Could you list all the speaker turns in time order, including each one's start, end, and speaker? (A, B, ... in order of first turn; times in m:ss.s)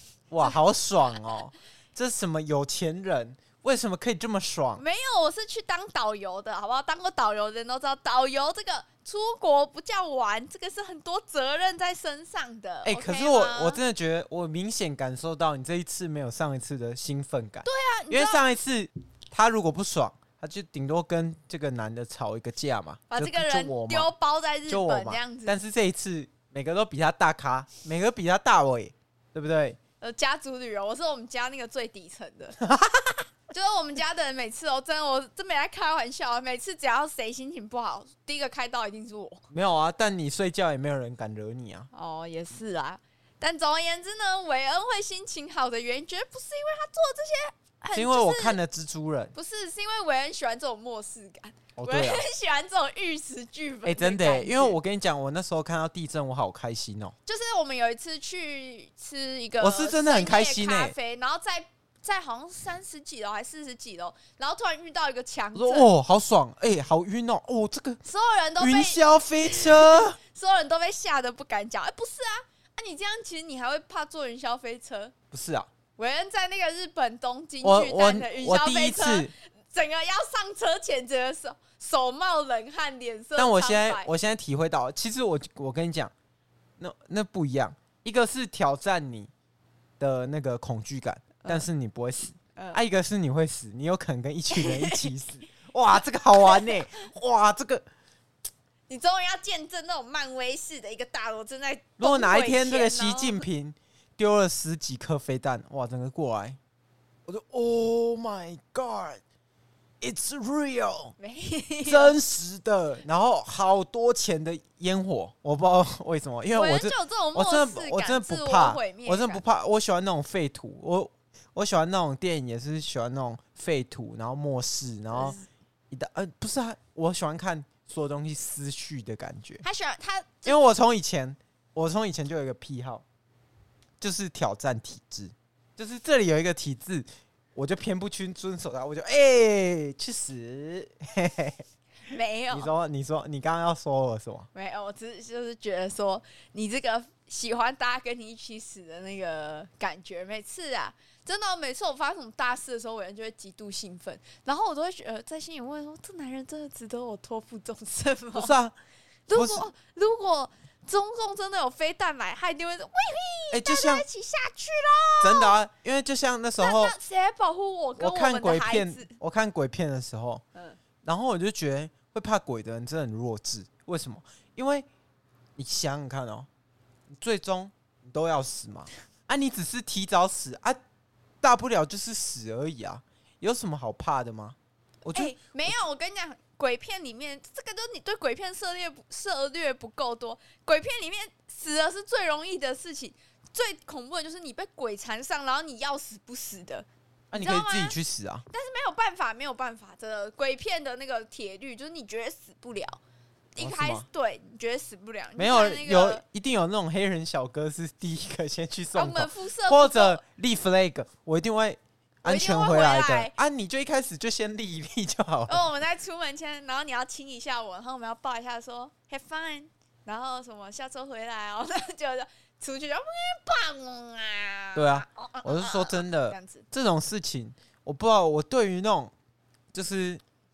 0:00.3-0:04.8 A
0:04.8-0:13.8 B
0:12.8-0:24.1 A
0:17.6-0:18.5 B
0:23.1-0:25.6 B
0:24.7-0:29.8 A
0:30.0-0:32.6 B
0:32.6-0:33.2 A
0:33.5-0:39.4 B
0:39.5-0:41.9 A
0:41.9-0:48.6 B
0:48.0-0:49.3 A
0:49.3-0:54.8 B
0:51.8-0:52.2 A
0:53.8-0:57.1 A
0:57.3-1:05.9 B
0:59.6-1:01.0 A
1:05.6-1:08.0 A
1:08.0-1:15.2 B
1:08.6-1:10.2 A
1:15.3-1:15.7 A
1:16.0-1:24.1 B
1:17.6-1:19.3 A
1:23.4-1:26.1 A
1:26.8-1:29.3 A
1:30.0-1:37.8 A
1:31.4-1:31.7 B
1:34.5-1:35.1 B
1:36.4-1:36.8 B
1:38.9-1:43.4 B
1:42.0-1:46.6 A
1:47.3-1:49.2 A
1:50.0-1:51.2 A
1:51.2-1:52.2 B
1:51.8-2:05.4 A
1:56.5-1:59.4 B
2:05.1-2:05.5 B
2:05.9-2:09.6 A
2:09.6-2:10.6 B
2:10.4-2:13.0 A
2:14.0-2:21.6 A
2:22.0-2:22.7 B
2:22.5-2:24.5 A
2:24.5-2:38.6 B
2:38.3-2:38.8 A
2:39.3-2:45.6 B
2:39.3-2:39.7 A
2:43.5-2:44.1 A
2:45.2-2:47.0 A
2:46.6-2:49.1 B
2:48.0-2:50.4 A
2:51.0-2:54.9 A
2:55.6-2:56.5 A
2:57.1-3:00.8 A
3:01.4-3:05.7 A
3:05.1-3:18.0 B
3:17.3-3:18.5 A
3:18.5-3:23.0 B
3:23.6-3:26.2 B
3:23.6-3:24.0 A
3:25.4-3:35.7 A
3:28.9-3:30.2 B
3:32.2-3:33.3 B
3:35.5-3:46.7 B
3:44.8-3:49.1 A
3:49.7-3:50.2 A